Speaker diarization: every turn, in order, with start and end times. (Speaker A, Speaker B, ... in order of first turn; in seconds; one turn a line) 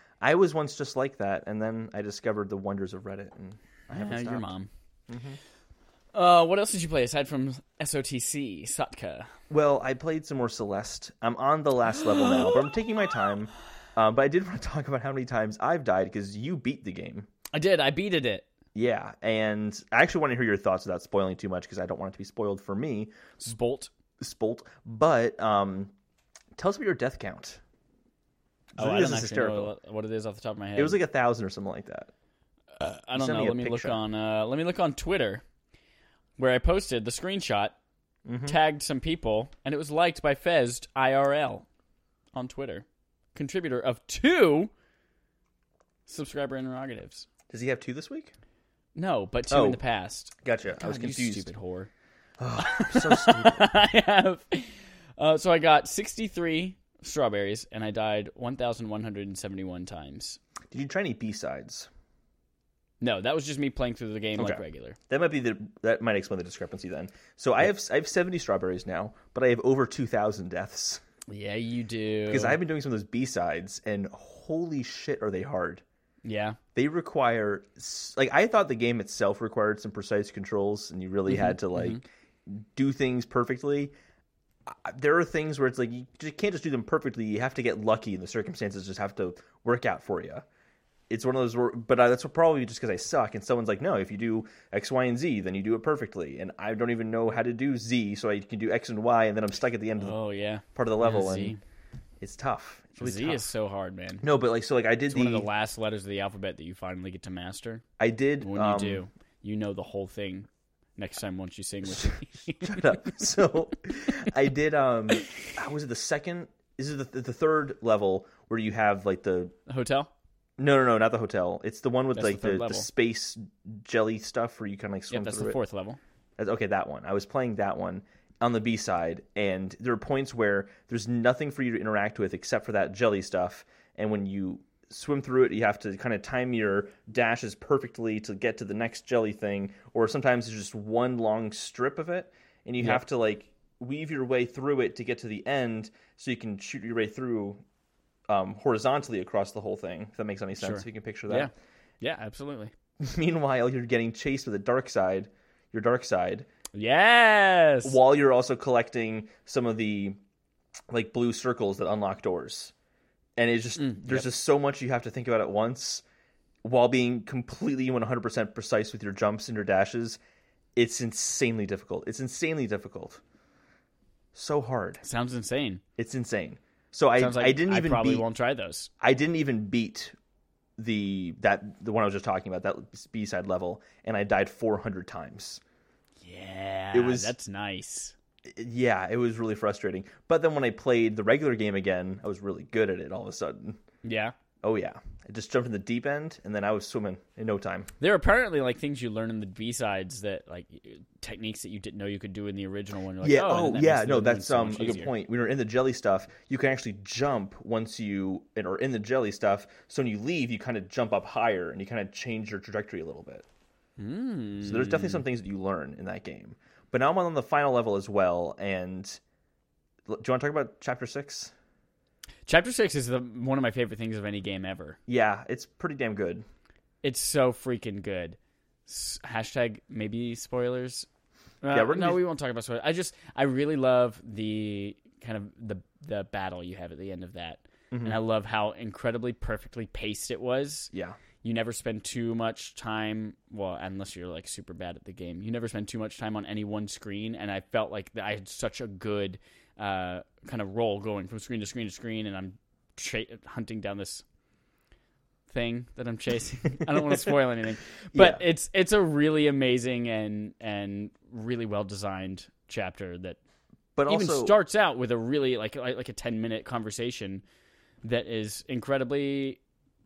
Speaker A: 0.2-4.5
Speaker B: 3.9-4.7
Speaker A: 5.1-5.4
Speaker B: 6.1-9.3
Speaker A: 9.5-17.3
Speaker B: 17.5-18.5
Speaker A: 18.7-23.1
Speaker B: 23.4-23.9
Speaker A: 24.2-25.9
Speaker A: 26.6-27.6
Speaker A: 28.8-29.7
Speaker B: 28.8-31.0
Speaker A: 30.8-32.1
Speaker B: 32.8-35.4
Speaker A: 33.1-34.0
Speaker B: 36.4-37.8
Speaker A: 38.2-38.6
Speaker B: 38.4-41.6
Speaker B: 42.3-44.7
Speaker B: 46.1-47.2
Speaker A: 47.5-48.3
Speaker B: 48.9-51.9
Speaker A: 49.5-49.8
Speaker A: 50.4-51.5
Speaker A: 52.4-53.7
Speaker B: 52.6-60.4
Speaker A: 60.7-61.9
Speaker B: 63.0-65.0
Speaker A: 64.4-71.0
Speaker B: 71.3-72.6
Speaker A: 72.3-75.8
Speaker B: 76.2-76.6
Speaker A: 76.7-83.9
Speaker B: 81.3-82.0
Speaker A: 84.7-90.4
Speaker A: 91.1-100.1
Speaker B: 100.0-101.6
Speaker A: 100.7-101.5
Speaker A: 102.2-103.4
Speaker B: 103.0-104.3
Speaker A: 104.2-105.5
Speaker B: 105.1-107.8
Speaker A: 108.0-109.0
Speaker B: 108.4-112.9
Speaker A: 111.9-119.5
Speaker B: 119.7-120.1
Speaker A: 120.6-125.6
Speaker B: 122.1-122.9
Speaker B: 125.1-126.0
Speaker A: 126.4-147.6
Speaker A: 148.3-151.5
Speaker B: 150.6-152.7
Speaker A: 153.0-156.5
Speaker B: 156.7-158.0
Speaker A: 157.8-160.2
Speaker A: 160.9-162.7
Speaker A: 163.4-166.0
Speaker B: 163.8-164.2
Speaker A: 166.6-170.2
Speaker A: 170.8-173.2
Speaker A: 174.3-175.0
Speaker B: 175.0-175.8
Speaker A: 176.0-178.2
Speaker B: 177.2-178.9
Speaker A: 179.0-180.1
Speaker A: 180.8-185.6
Speaker B: 186.2-188.1
Speaker A: 186.9-187.3
Speaker A: 188.4-193.8
Speaker B: 194.0-194.3
Speaker A: 194.6-197.9
Speaker B: 198.0-205.1
Speaker A: 203.2-213.4
Speaker B: 214.0-215.2
Speaker A: 214.6-219.2
Speaker A: 220.1-221.5
Speaker B: 222.4-225.0
Speaker A: 225.1-226.4
Speaker B: 227.0-231.1
Speaker B: 231.6-240.9
Speaker A: 231.7-232.2
Speaker A: 237.9-238.2
Speaker A: 240.9-241.2
Speaker B: 241.4-254.2
Speaker B: 255.5-263.4
Speaker A: 257.0-257.3
Speaker A: 258.1-258.4
Speaker A: 263.9-264.6
Speaker B: 264.1-267.4
Speaker B: 268.0-269.6